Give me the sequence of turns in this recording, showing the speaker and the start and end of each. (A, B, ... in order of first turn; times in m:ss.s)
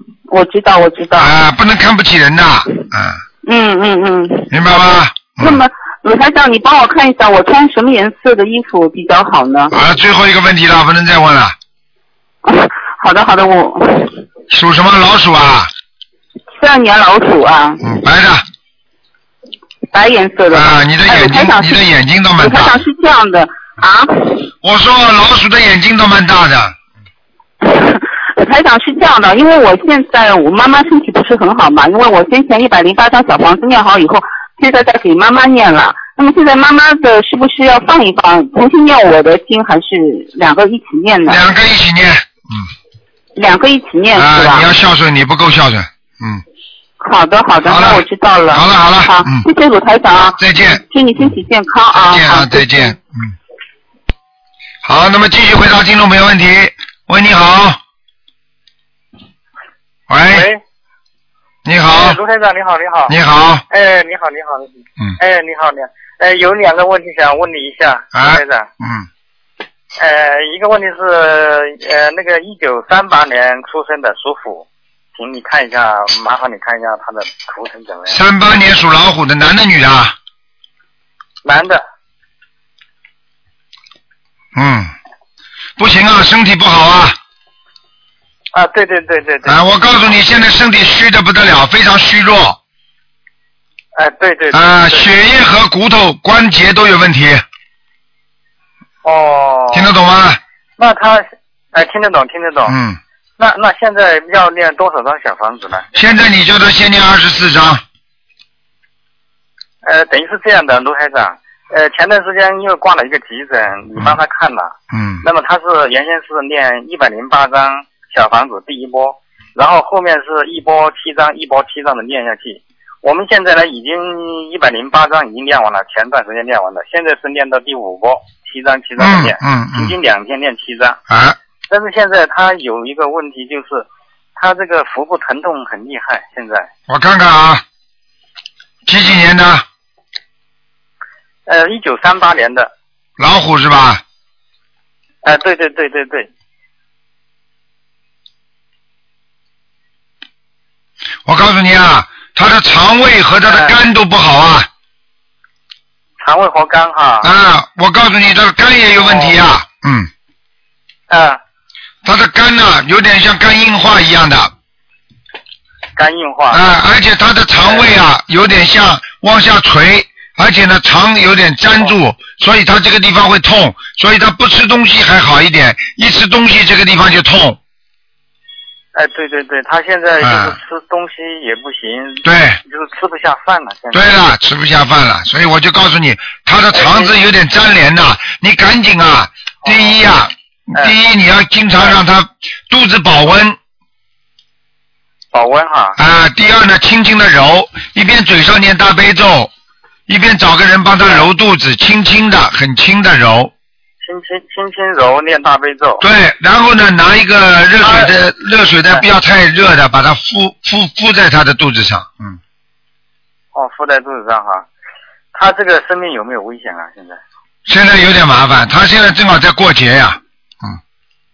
0:00.3-0:01.3 A
0:01.1-0:03.2 B
0:03.4-0:09.7 A
0:04.5-0:05.6 B
0:09.7-0:11.6 B
0:12.4-0:14.1 A
0:14.5-0:15.7 B
0:16.6-0:17.8 A
0:17.8-0:18.4 B
0:19.9-0:21.8 A
0:20.5-0:22.8 B
0:22.4-0:24.5 A
0:24.6-0:26.7 B
0:27.6-0:41.4 A
0:41.2-0:42.7 B
0:43.4-0:44.6 A
0:44.1-0:46.4 B
0:47.0-0:52.9 A
0:47.6-0:49.4 B
0:50.4-0:50.8 B
0:51.9-0:53.4 B
0:54.8-0:57.8 B
1:00.1-1:00.5 B
1:00.3-1:00.6 C
1:01.6-1:02.2 B
1:01.9-1:03.1 C
1:03.1-1:03.6 B
1:03.7-1:08.7 C
1:08.1-1:09.1 B
1:10.0-1:18.2 C
1:18.1-1:20.1 B
1:21.4-1:21.8 C
1:24.6-1:24.9 B
1:25.8-1:27.2 B
1:28.5-1:29.6 C
1:29.4-1:32.6 B
1:33.9-1:35.1 C
1:34.5-1:37.4 B
1:39.0-1:40.0 C
1:39.7-1:40.4 B
1:40.8-1:42.8 C
1:42.7-1:43.0 B
1:43.4-1:45.9 C
1:45.9-1:47.8 B
1:49.8-2:11.0 C
1:54.9-1:55.2 B
2:09.0-2:10.0 B
2:11.1-2:11.4 B
2:11.7-2:16.7 C
2:16.9-2:17.6 B
2:18.9-2:19.6 B
2:21.5-2:22.7 C
2:23.2-2:24.0 B
2:25.2-2:26.3 C
2:31.2-2:34.7 B
2:33.5-2:33.7 C
2:36.2-2:37.3 C
2:37.2-2:40.1 B
2:39.0-2:39.4 C
2:41.1-2:41.4 C
2:42.0-2:44.5 B
2:46.0-2:46.6 C
2:46.5-2:57.6 B
2:47.6-2:47.9 C
2:58.9-3:04.1 C
3:00.2-3:00.6 B
3:02.2-3:02.6 B
3:03.9-3:13.6 B
3:06.7-3:07.1 C
3:09.6-3:10.0 C
3:15.3-3:16.0 C
3:16.0-3:19.5 B
3:20.1-3:23.5 B
3:21.0-3:21.3 C
3:24.0-3:26.0 C
3:26.0-3:32.4 B
3:27.8-3:28.1 C
3:33.5-3:34.6 C
3:35.3-3:37.2 C
3:37.7-3:40.8 B